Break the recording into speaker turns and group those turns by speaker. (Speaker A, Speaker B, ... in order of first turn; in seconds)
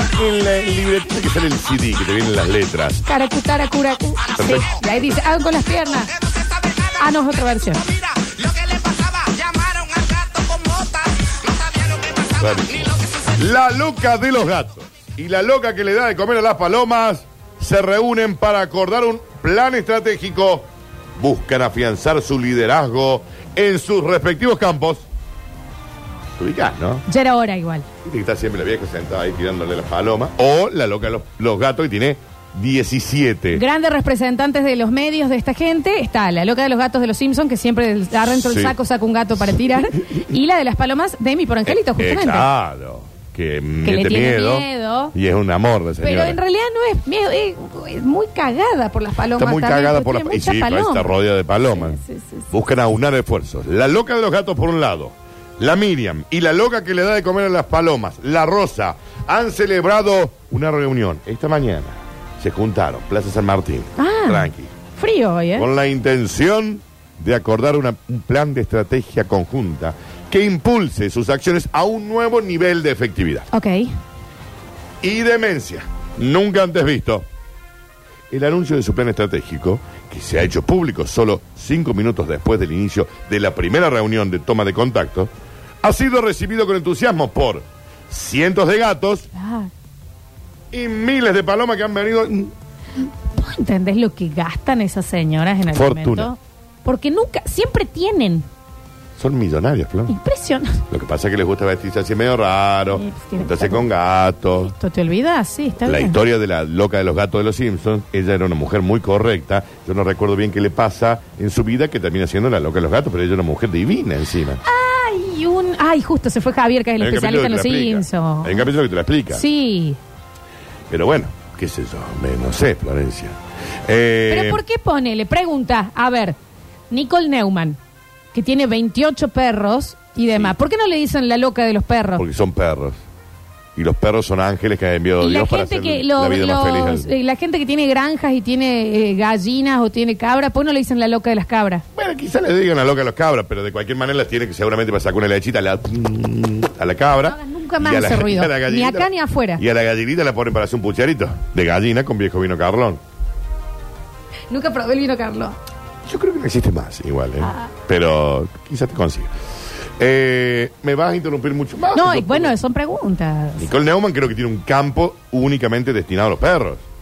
Speaker A: 0.1-3.0, 4.4-4.9, 12.2-25.1, 26.4-27.0, 28.0-33.6, 38.3-38.8, 41.9-46.4, 49.3-52.0, 52.5-64.7, 65.5-73.5, 75.0-77.2, 78.3-85.3, 85.8-89.3, 90.7-92.5, 95.7-96.3, 99.2-100.1, 100.9-104.7, 105.8-114.6, 117.0-119.4, 120.9-124.6, 132.2-133.0, 133.8-137.1, 141.9-153.0, 156.1-159.3, 160.0-162.5, 163.6-166.8
Speaker B: 3.0-6.1, 6.8-8.1, 27.1-27.9, 33.5-42.5, 43.8-45.1, 46.0-51.1, 51.7-52.5, 64.0-65.7, 73.5-74.0, 89.3-89.7, 93.3-98.5, 100.1-100.8, 102.9-103.9, 104.5-106.2, 114.6-118.7, 119.3-120.0, 124.3-126.4, 126.9-127.8, 128.3-132.2, 135.2-141.8, 147.2-149.6, 154.5-155.6, 157.4-157.7, 161.9-163.7
Speaker C: 8.2-12.2